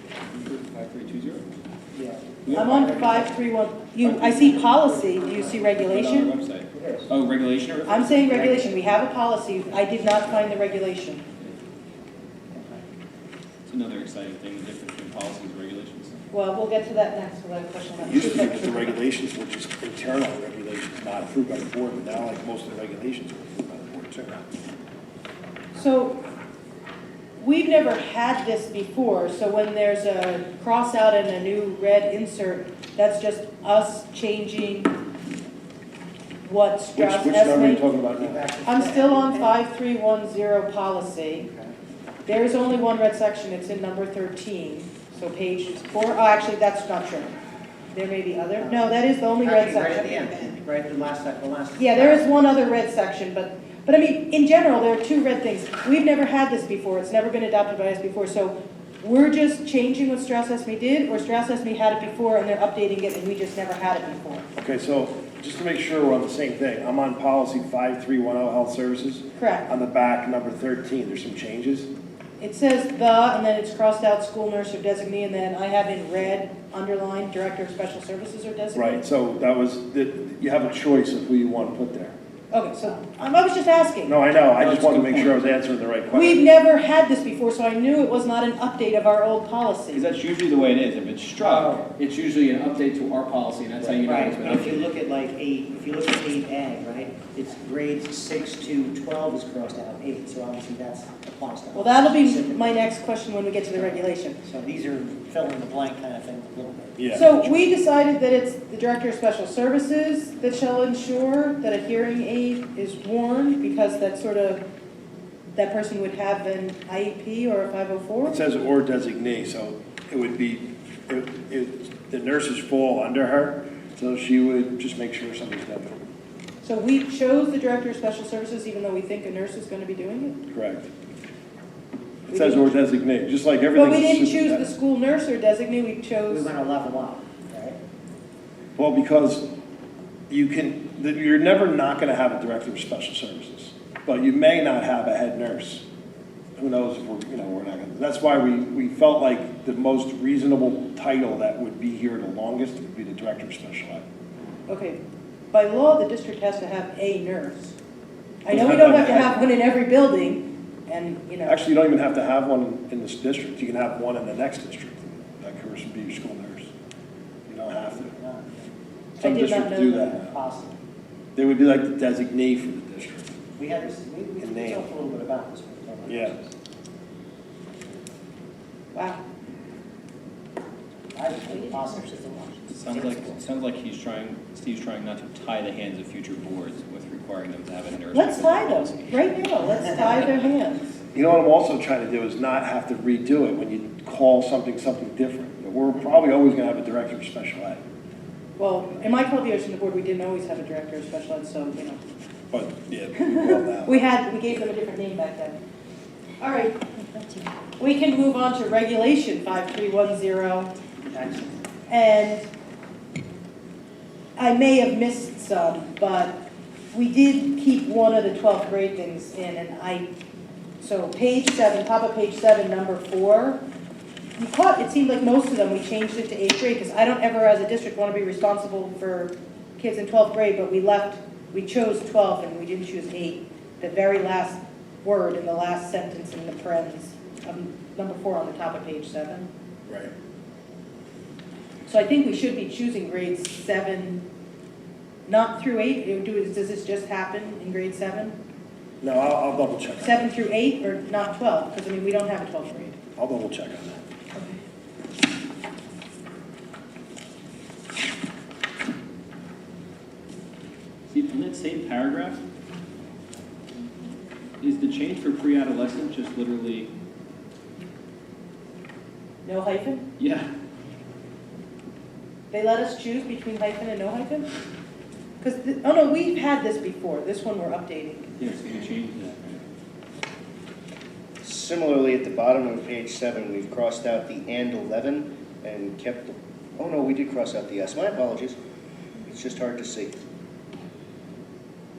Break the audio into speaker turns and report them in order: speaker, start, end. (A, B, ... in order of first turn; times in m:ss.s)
0:00.3-0:01.5 A
0:01.9-0:03.3 B
0:02.4-0:02.8 A
0:02.5-0:06.3 C
0:04.0-0:04.6 A
0:04.5-0:05.7 B
0:05.8-0:08.6 A
0:06.7-0:07.1 B
0:07.9-0:11.2 C
0:12.5-0:12.8 B
0:13.6-0:16.2 A
0:16.3-0:19.0 C
0:18.0-0:24.5 D
0:25.7-0:26.2 C
0:27.4-0:35.0 C
0:36.4-0:37.8 C
0:37.0-0:38.4 D
0:38.2-0:39.6 B
0:38.6-0:41.5 C
0:42.2-0:47.3 C
0:47.9-0:50.5 C
0:48.6-0:48.9 B
0:49.4-0:52.3 B
0:51.8-1:04.4 C
1:04.6-1:11.9 D
1:09.4-1:09.7 C
1:12.4-1:19.0 C
1:18.7-1:22.2 D
1:22.5-1:24.2 C
1:24.0-1:26.4 D
1:24.6-1:25.4 A
1:26.1-1:30.0 C
1:29.9-1:34.9 A
1:31.5-1:31.8 B
1:34.0-1:42.6 B
1:41.7-1:44.4 C
1:44.4-1:46.9 B
1:47.0-1:47.5 D
1:47.1-1:54.6 C
1:55.5-1:58.4 C
1:58.2-2:06.0 D
2:06.6-2:10.4 C
2:10.5-2:10.9 D
2:12.3-2:14.7 D
2:12.3-2:12.7 C
2:13.7-2:16.5 C
2:16.3-2:17.8 B
2:18.8-2:19.5 D
2:20.3-2:25.8 D
2:26.6-2:34.0 D
2:34.7-2:35.0 C
2:35.5-2:37.8 C
2:38.4-2:41.6 C
2:38.5-2:39.4 D
2:41.4-2:46.7 D
2:47.5-2:48.2 D
2:49.2-2:50.1 C
2:49.2-2:50.3 D
2:50.2-2:50.8 B
2:51.4-2:53.3 D
2:53.6-2:56.3 B
2:54.4-2:54.9 D
2:56.1-2:56.4 D
2:58.9-2:59.2 C
3:01.1-3:02.6 B
3:02.7-3:09.1 A
3:08.1-3:10.9 C
3:11.1-3:17.8 D
3:18.6-3:22.0 C
3:22.5-3:24.0 D
3:23.2-3:25.6 C
3:26.4-3:30.7 C
3:31.1-3:31.6 B
3:31.9-3:32.5 C
3:34.4-3:36.4 C
3:36.9-3:40.1 C
3:40.8-3:43.6 C
3:44.4-3:59.5 C
3:59.9-4:00.1 D
4:01.8-4:04.2 C
4:05.2-4:08.3 C
4:09.0-4:10.2 D
4:10.0-4:13.0 C
4:13.2-4:14.0 D
4:14.3-4:14.6 C
4:21.1-4:22.4 A
4:24.6-4:26.9 A
4:29.4-4:30.1 C
4:30.2-4:30.5 A
4:32.5-4:34.5 C
4:35.4-4:38.4 C
4:38.4-4:39.6 A
4:41.4-4:48.5 E
4:49.3-4:50.1 E